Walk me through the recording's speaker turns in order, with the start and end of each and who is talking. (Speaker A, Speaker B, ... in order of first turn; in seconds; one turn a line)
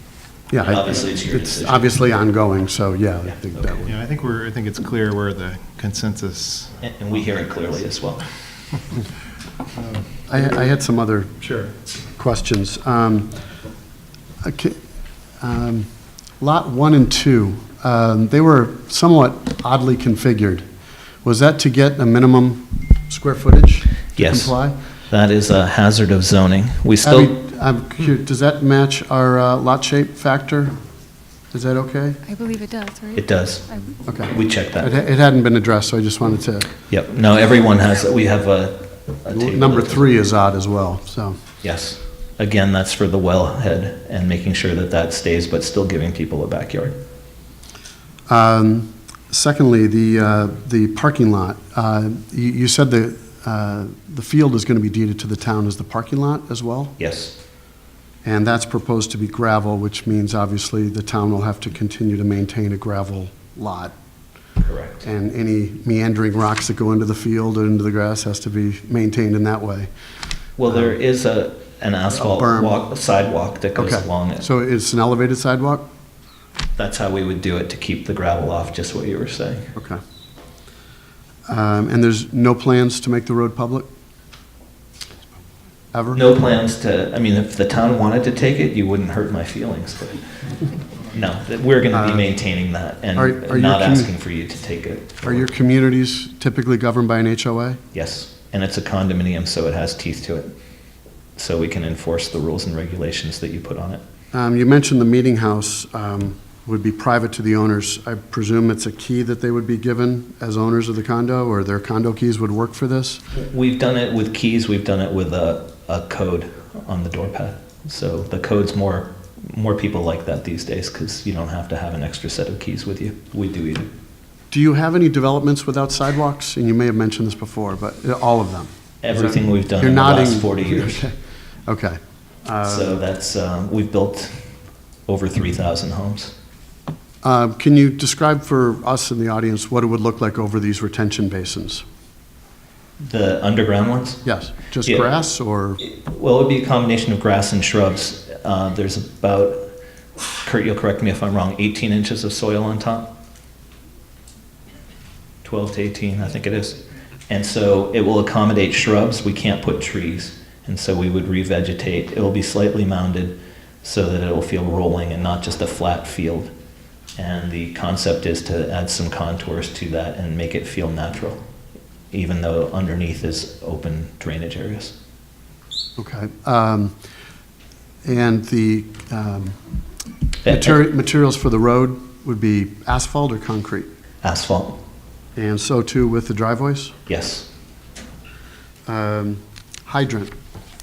Speaker A: 0.5-3.9
Speaker B: 0.6-1.9
Speaker B: 3.3-3.9
Speaker C: 3.9-6.8
Speaker B: 6.8-8.2
Speaker C: 9.8-10.1
Speaker A: 10.3-11.3
Speaker C: 11.4-11.7
Speaker A: 12.2-13.3
Speaker A: 14.4-14.8
Speaker A: 15.4-15.9
Speaker A: 16.4-20.6
Speaker A: 21.2-24.8
Speaker B: 24.2-24.6
Speaker B: 25.1-27.3
Speaker A: 27.0-30.8
Speaker A: 31.5-32.2
Speaker D: 32.3-34.4
Speaker B: 33.1-33.6
Speaker A: 34.1-36.7
Speaker B: 34.3-34.9
Speaker B: 36.9-40.2
Speaker A: 39.3-41.4
Speaker B: 41.6-47.0
Speaker A: 48.3-56.9
Speaker B: 57.0-57.4
Speaker A: 58.2-63.9
Speaker B: 64.6-65.0
Speaker A: 65.0-69.9
Speaker B: 70.6-74.5
Speaker A: 72.2-72.8
Speaker A: 73.8-75.9
Speaker B: 76.8-79.7
Speaker A: 79.8-80.0
Speaker A: 81.5-83.9
Speaker A: 85.9-86.2
Speaker B: 86.1-90.3
Speaker B: 91.1-95.5
Speaker A: 91.9-92.3
Speaker A: 93.2-94.1
Speaker A: 95.2-97.8
Speaker B: 97.9-100.5
Speaker B: 101.4-104.0
Speaker A: 104.3-113.2
Speaker B: 113.4-123.9
Speaker A: 124.5-133.0
Speaker B: 129.0-131.1
Speaker B: 132.7-134.5
Speaker B: 135.1-136.3
Speaker A: 137.2-141.8
Speaker B: 143.0-144.2
Speaker A: 144.2-145.8
Speaker B: 145.8-149.7
Speaker B: 150.4-153.1
Speaker B: 155.4-166.5
Speaker B: 167.2-171.4
Speaker B: 172.1-174.9
Speaker A: 176.0-176.9
Speaker A: 178.1-179.6
Speaker B: 180.4-180.8
Speaker A: 180.5-183.9
Speaker B: 184.2-184.8
Speaker A: 185.4-186.9
Speaker B: 187.1-187.5
Speaker A: 188.9-190.3